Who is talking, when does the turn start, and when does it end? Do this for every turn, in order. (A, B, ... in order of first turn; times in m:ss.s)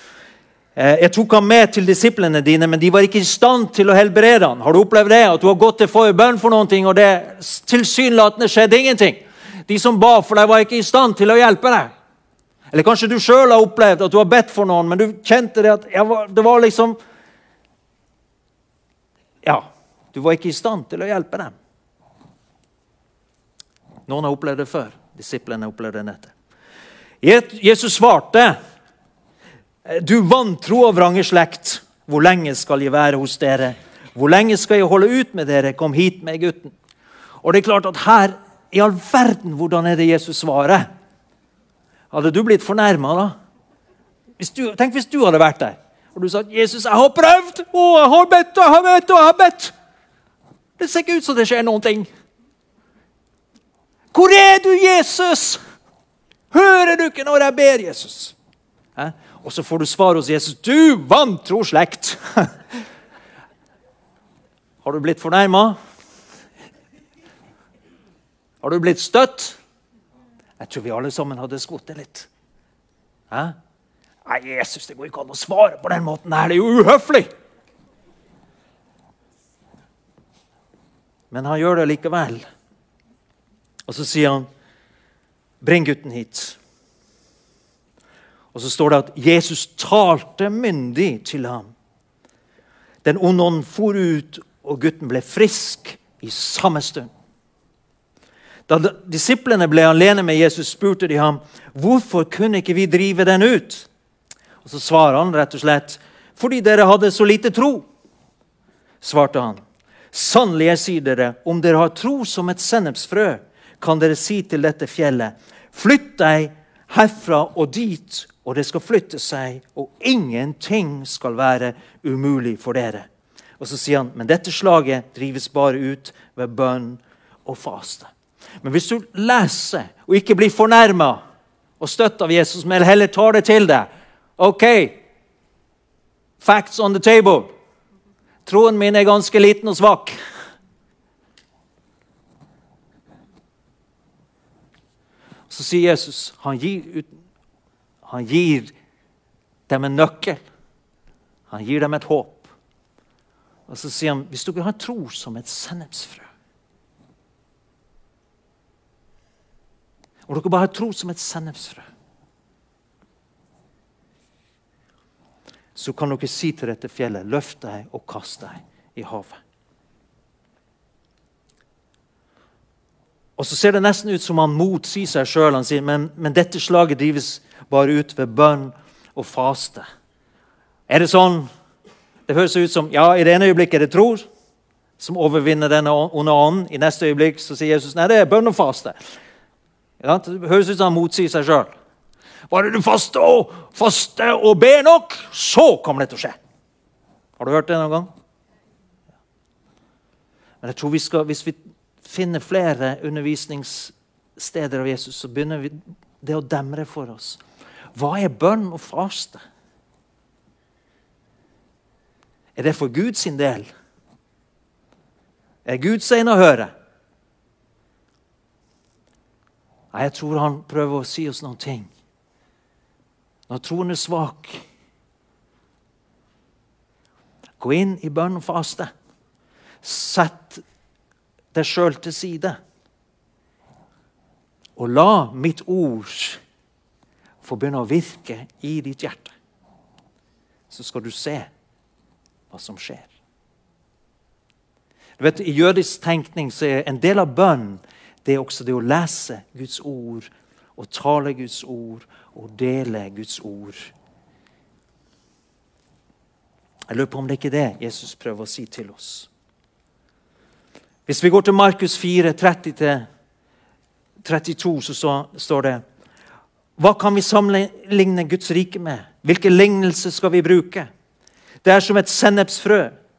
0:00.8-0:11.9 A
0:12.7-0:17.0 A
0:19.4-0:21.5 A
0:24.1-0:26.3 A
0:27.2-0:28.6 A
0:29.8-0:36.7 A
0:37.4-0:40.9 A
0:42.1-0:43.4 A
0:44.4-0:49.7 A
0:50.8-0:52.1 A
0:54.1-0:55.6 A
0:56.5-0:58.4 A
0:59.0-1:02.6 A
1:04.8-1:05.8 A
1:08.6-1:09.6 A
1:10.6-1:12.3 A
1:13.3-1:13.6 A
1:14.2-1:17.3 A
1:21.3-1:22.5 A
1:23.9-1:24.5 A
1:25.6-1:26.6 A
1:28.5-1:31.7 A
1:33.0-1:37.1 A
1:38.7-1:43.9 A
1:44.6-1:47.9 A
1:49.0-1:49.6 A
1:50.1-2:03.1 A
2:03.6-2:08.1 A
2:08.6-2:11.2 A
2:11.8-2:15.0 A
2:16.4-2:17.5 A
2:18.4-2:20.1 A
2:25.5-2:27.1 A
2:28.0-2:28.7 A
2:29.7-2:30.4 A
2:31.5-2:32.5 A
2:33.7-2:36.3 A
2:40.3-2:41.9 A
2:45.8-2:49.4 A
2:53.4-2:59.9 A
3:00.9-3:01.5 A
3:02.3-3:04.3 A
3:05.0-3:09.0 A
3:10.0-3:11.7 A
3:12.5-3:16.4 A
3:17.4-3:18.1 A
3:20.6-3:27.4 A
3:28.0-3:29.4 A
3:32.6-3:33.7 A
3:35.7-3:36.7 A
3:39.9-3:41.9 A
3:43.5-3:44.6 A
3:47.6-3:48.9 A
3:49.8-3:50.6 A
3:51.5-3:52.6 A
3:54.8-3:56.4 A
3:57.4-3:59.3 A
4:00.7-4:01.5 A
4:02.5-4:03.1 A
4:05.2-4:13.9 A
4:16.9-4:19.3 A
4:21.1-4:23.1 A
4:24.2-4:25.8 A
4:26.8-4:30.9 A
4:31.6-4:32.9 A